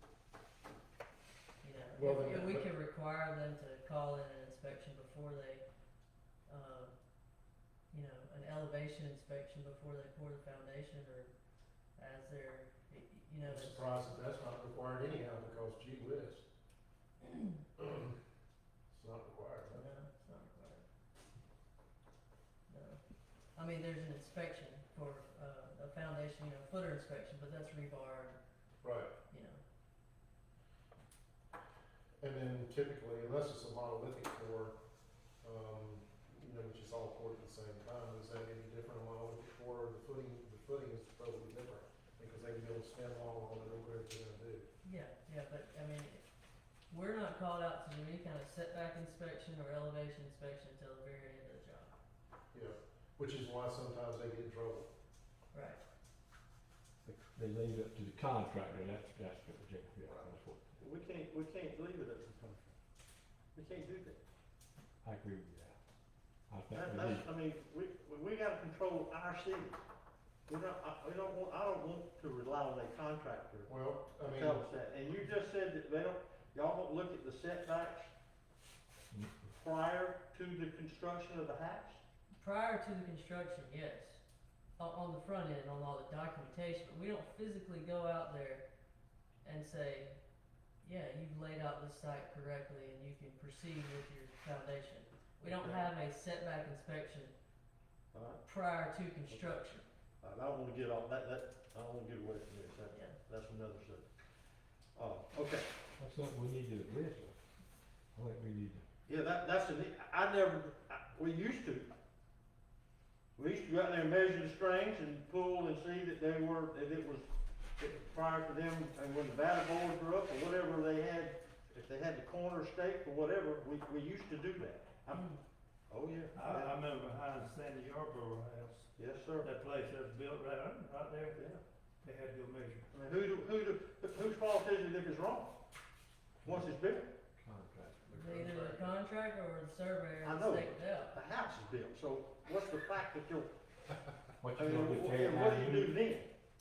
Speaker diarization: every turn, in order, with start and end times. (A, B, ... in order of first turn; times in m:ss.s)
0:01.6-0:05.6 A
0:02.0-0:02.7 B
0:06.5-0:06.9 A
0:07.9-0:11.3 A
0:12.0-0:13.9 A
0:13.4-0:16.4 B
0:17.2-0:17.5 A
0:17.8-0:18.2 B
0:18.9-0:19.9 B
0:19.7-0:20.8 A
0:22.7-0:23.0 A
0:23.5-0:28.4 A
0:28.8-0:29.1 B
0:29.3-0:29.6 A
0:32.2-0:34.8 B
0:35.4-0:44.7 B
0:44.8-0:46.2 A
0:46.9-0:51.9 A
0:52.5-0:54.9 B
0:55.5-0:55.8 A
0:57.0-1:00.8 C
1:00.8-1:02.7 D
1:03.5-1:04.2 D
1:05.0-1:05.8 C
1:06.5-1:07.2 C
1:06.7-1:09.8 D
1:10.5-1:18.1 D
1:13.7-1:14.6 B
1:19.6-1:22.0 D
1:22.4-1:24.2 A
1:24.8-1:28.7 A
1:29.4-1:30.2 A
1:30.8-1:37.3 A
1:35.4-1:35.9 D
1:38.1-1:38.4 D
1:38.4-1:39.8 A
1:39.3-1:39.6 D
1:40.2-1:44.1 D
1:42.9-1:43.2 A
1:44.9-1:45.7 D
1:46.0-1:47.4 C
1:48.1-1:48.8 C
1:49.1-1:51.9 D
1:53.4-2:05.3 D
2:05.1-2:05.4 A
2:05.9-2:06.7 D
2:06.3-2:11.4 E
2:09.0-2:09.5 D
2:11.3-2:11.6 D
2:12.0-2:12.9 E
2:12.9-2:15.5 D
2:16.4-2:17.1 D
2:17.4-2:18.8 C
2:18.1-2:21.1 A
2:20.2-2:23.5 D
2:24.4-2:26.0 C
2:24.6-2:26.3 D